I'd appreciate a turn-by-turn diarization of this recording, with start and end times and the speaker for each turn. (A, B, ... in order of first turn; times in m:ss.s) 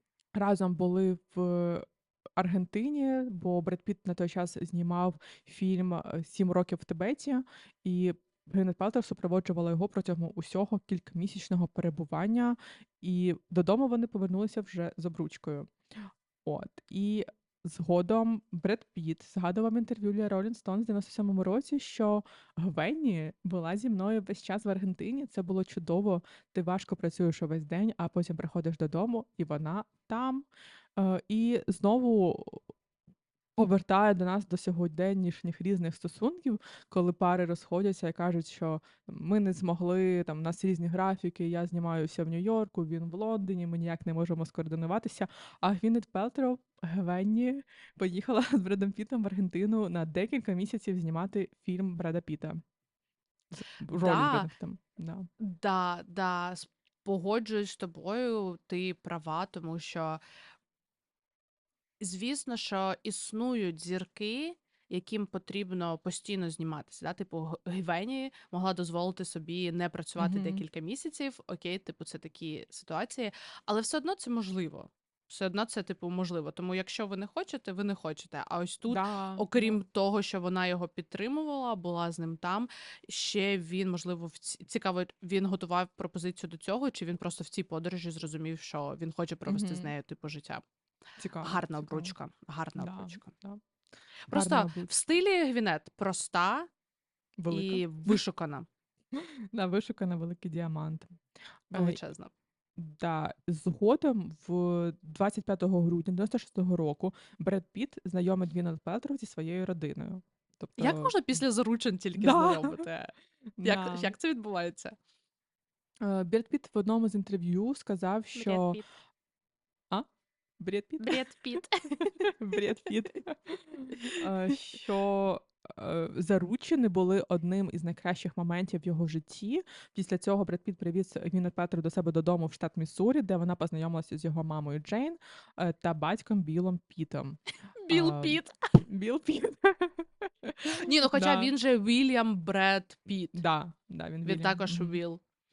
0:00.4-0:01.9 A
0:02.4-0:15.7 A
0:16.4-0:30.5 A
0:31.0-0:32.6 A
0:33.6-0:52.6 A
0:53.5-0:55.3 A
0:53.9-0:54.5 B
0:55.4-1:00.2 B
1:02.0-1:30.6 B
1:10.2-1:10.6 A
1:18.9-1:19.8 A
1:29.5-1:29.9 A
1:31.2-1:32.2 A
1:31.4-1:33.3 B
1:32.8-1:33.6 A
1:34.3-1:36.7 B
1:34.3-1:34.9 A
1:37.4-1:38.2 A
1:37.5-1:38.7 B
1:39.1-1:41.2 A
1:41.7-1:42.0 A
1:41.7-1:42.3 B
1:42.8-1:51.4 A
1:50.8-1:55.0 B
1:52.2-1:52.8 A
1:53.6-1:54.1 A
1:56.0-1:58.8 A
1:58.4-1:58.9 B
2:00.6-2:01.2 A
2:01.0-2:02.1 B
2:02.1-2:21.5 A
2:04.0-2:04.3 B
2:17.8-2:18.5 B
2:20.7-2:23.4 B
2:23.4-2:25.0 A
2:24.2-2:25.2 B